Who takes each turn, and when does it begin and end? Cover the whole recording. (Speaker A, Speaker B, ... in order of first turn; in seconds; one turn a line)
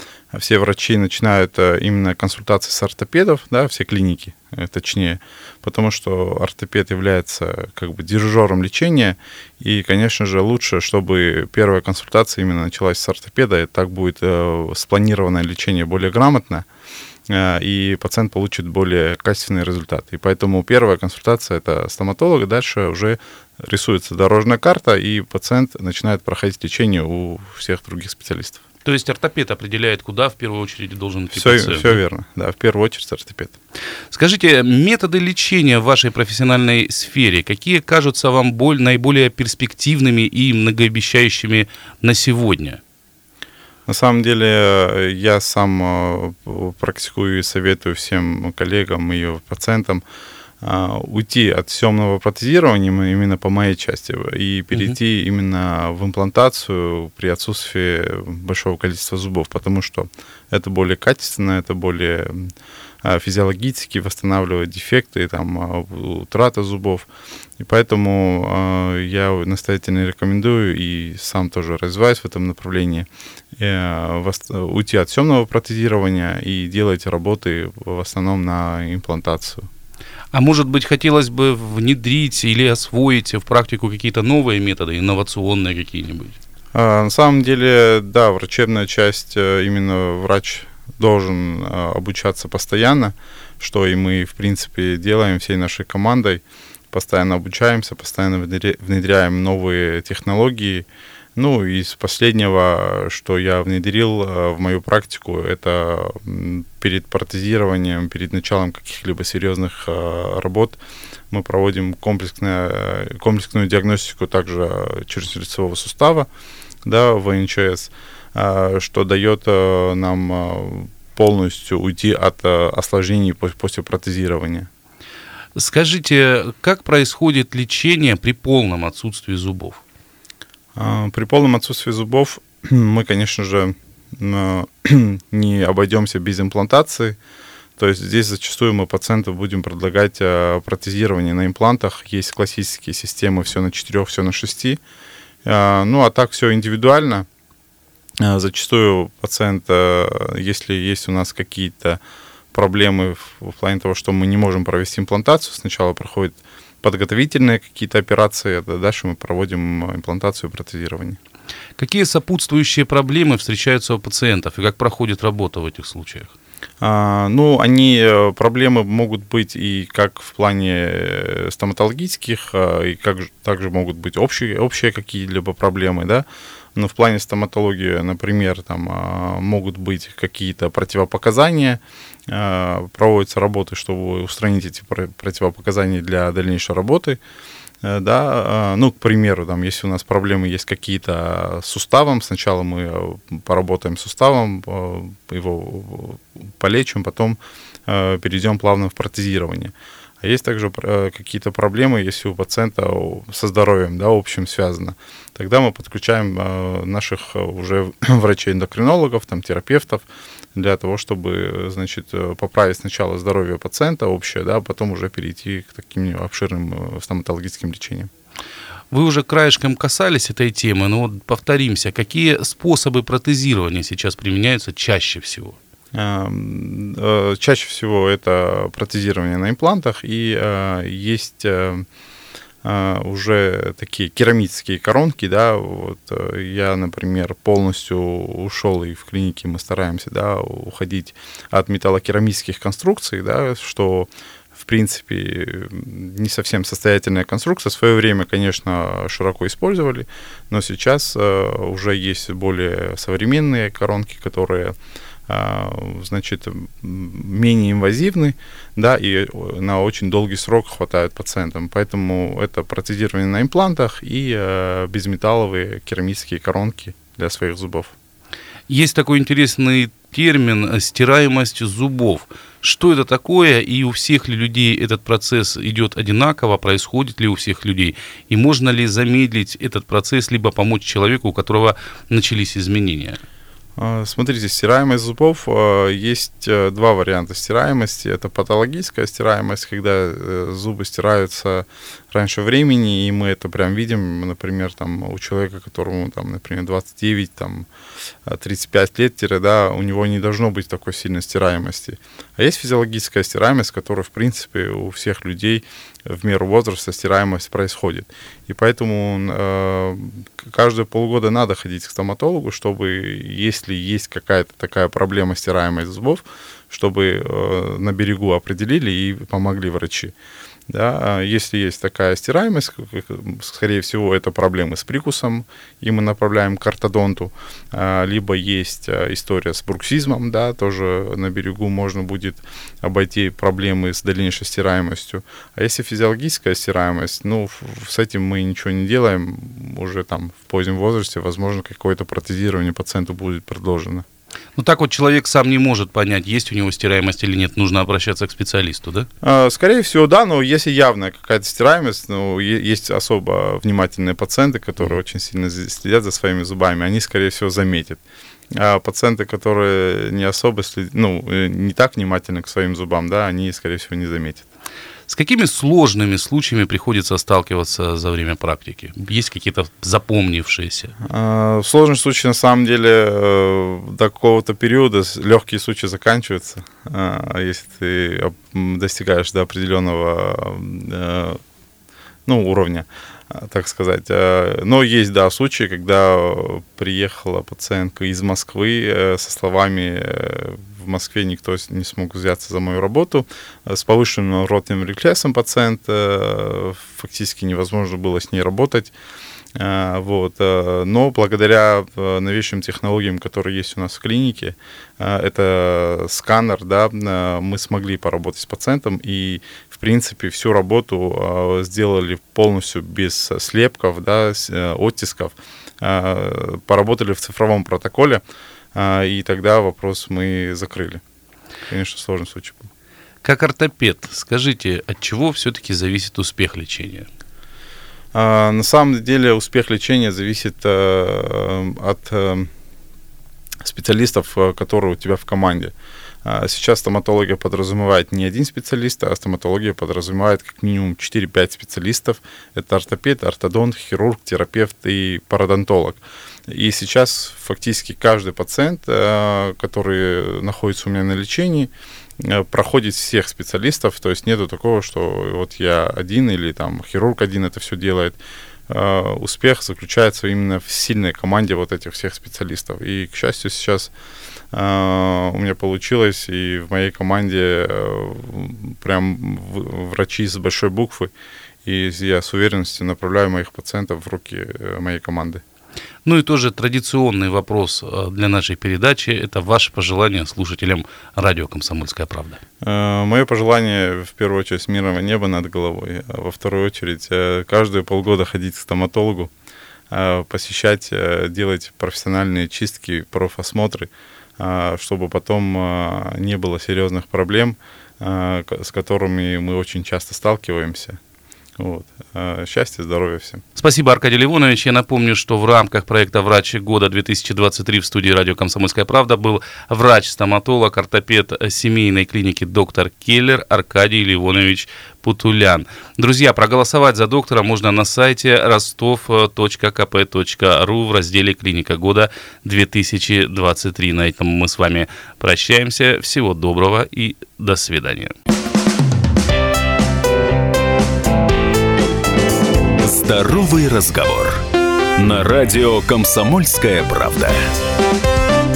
Speaker A: 0.3-16.7
Speaker A: 17.3-28.6
Speaker B: 28.8-32.0
Speaker A: 31.3-33.5
Speaker B: 34.1-42.8
Speaker A: 43.9-50.0
Speaker A: 50.6-62.5
Speaker A: 63.0-67.1
Speaker A: 67.6-73.1
Speaker A: 73.6-79.7
Speaker B: 80.3-86.4
Speaker A: 86.7-110.8
Speaker A: 111.3-116.3
Speaker A: 116.8-124.7
Speaker B: 125.5-129.8
Speaker A: 130.8-137.2
Speaker A: 137.8-144.8
Speaker A: 145.4-147.3
Speaker A: 148.2-152.0
Speaker A: 152.5-161.2
Speaker B: 161.8-166.3
Speaker A: 166.8-187.2
Speaker A: 187.8-218.1
Speaker B: 218.9-225.6
Speaker A: 225.9-231.8
Speaker A: 232.6-254.8
Speaker A: 255.3-267.9
Speaker B: 268.7-283.2
Speaker A: 283.8-297.7
Speaker A: 298.3-320.1
Speaker A: 320.7-344.1
Speaker B: 344.6-349.1
Speaker A: 349.2-358.0
Speaker A: 358.6-364.4
Speaker B: 365.1-370.9
Speaker A: 371.0-381.4
Speaker A: 382.3-398.9
Speaker A: 399.6-418.2
Speaker A: 418.8-421.0
Speaker A: 421.7-422.7
Speaker B: 423.2-427.1
Speaker A: 428.1-432.5
Speaker A: 433.6-435.7
Speaker A: 436.2-458.2
Speaker A: 458.7-463.9
Speaker A: 464.5-471.1
Speaker A: 471.6-475.4
Speaker B: 476.1-482.4
Speaker A: 482.6-489.3
Speaker A: 489.9-501.0
Speaker A: 501.6-503.4
Speaker B: 503.6-528.1
Speaker C: 532.8-534.4
Speaker C: 535.0-537.5